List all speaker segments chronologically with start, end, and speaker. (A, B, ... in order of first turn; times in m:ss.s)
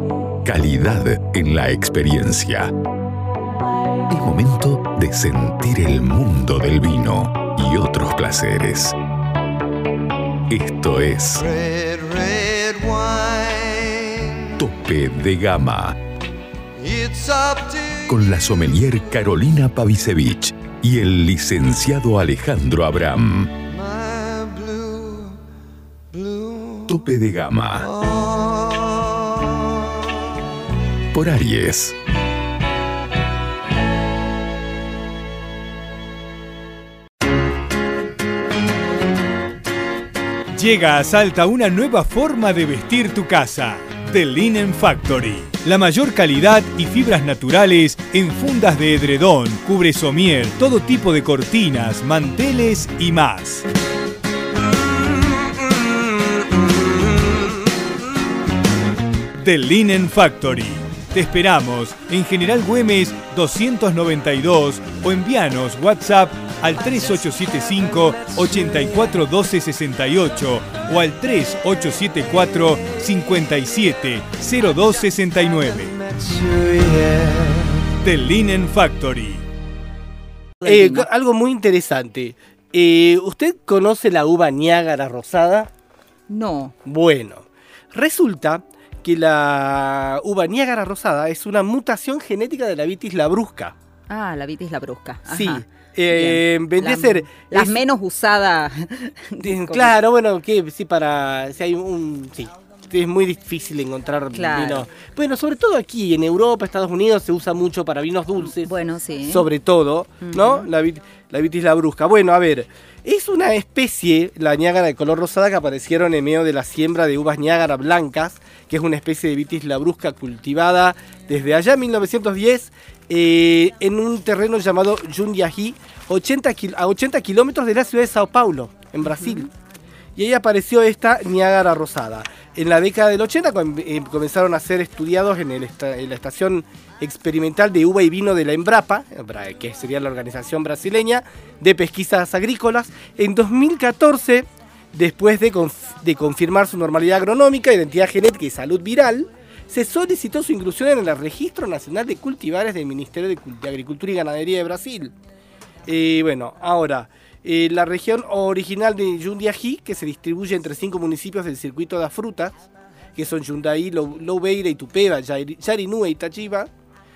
0:00.4-0:02.7 A
0:04.1-0:09.0 A
0:10.5-0:11.6 A
0:11.6-0:14.4 B
0:14.6-0:16.0 A
0:16.8-0:18.0 B
0:18.0-0:23.6 A
0:23.8-0:25.3 B
0:26.1-0:26.8 B
0:26.8-0:27.9 A
0:28.0-0:29.0 B
0:31.1-0:32.0 A
0:40.5-0:53.6 C
0:54.8-0:57.9 D
0:59.4-1:16.0 C
1:16.2-1:17.8 B
1:18.0-1:19.4 C
1:20.6-1:21.1 E
1:20.6-1:25.7 D
1:26.3-1:26.7 E
1:26.8-1:33.7 D
1:34.1-1:39.9 E
1:35.3-1:37.8 D
1:39.4-1:48.7 D
1:44.3-1:44.9 E
1:48.4-1:49.5 E
1:49.3-2:09.5 D
1:50.2-1:50.7 E
2:09.0-2:09.5 E
2:10.2-2:35.1 D
2:35.8-2:46.7 D